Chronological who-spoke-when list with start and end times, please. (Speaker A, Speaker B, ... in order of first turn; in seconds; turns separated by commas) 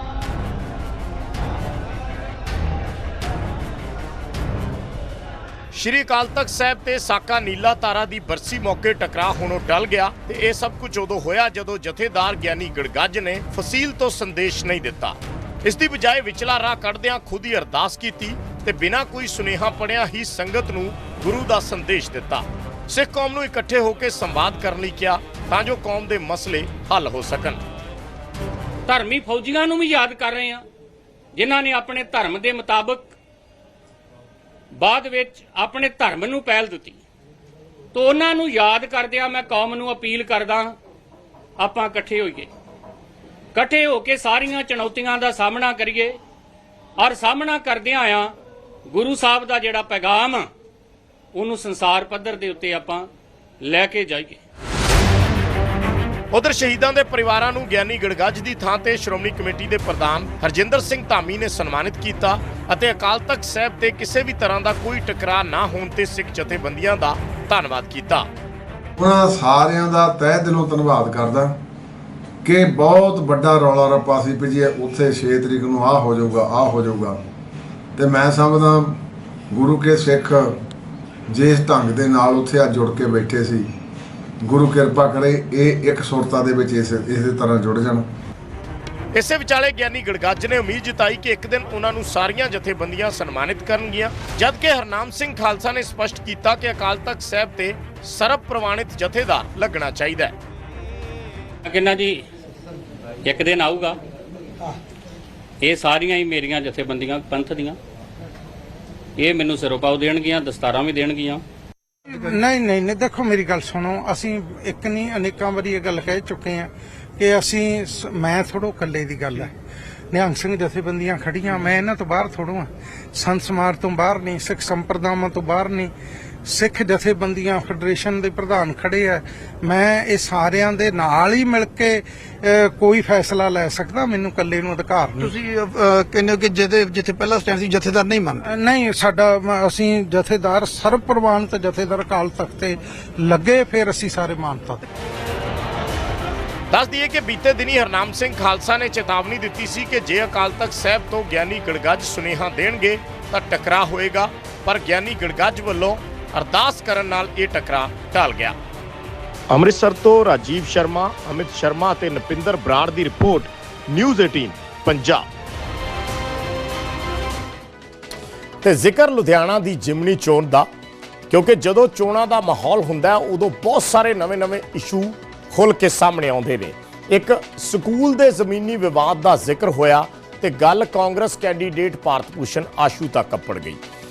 Speaker A: 5.7-27.6, Speaker B: 28.9-30.6, Speaker B: 31.3-33.1, Speaker B: 34.8-37.0, Speaker B: 37.9-40.8, Speaker B: 41.6-42.5, Speaker B: 43.5-46.2, Speaker B: 47.0-48.3, Speaker B: 48.9-50.5, Speaker B: 51.3-53.1, Speaker B: 53.6-54.4, Speaker A: 56.3-68.3, Speaker C: 69.0-71.6, Speaker C: 72.4-77.2, Speaker C: 78.0-79.0, Speaker C: 79.5-80.5, Speaker C: 81.3-83.7, Speaker C: 84.4-88.1, Speaker A: 89.1-100.3, Speaker B: 101.7-102.2, Speaker B: 103.2-104.0, Speaker B: 105.6-107.8, Speaker B: 109.2-111.4, Speaker D: 112.1-119.5, Speaker D: 120.1-125.9, Speaker D: 126.5-135.3, Speaker E: 135.2-138.5, Speaker D: 138.4-144.8, Speaker A: 146.7-158.6, Speaker A: 159.5-165.3, Speaker A: 168.6-170.7, Speaker A: 171.3-183.8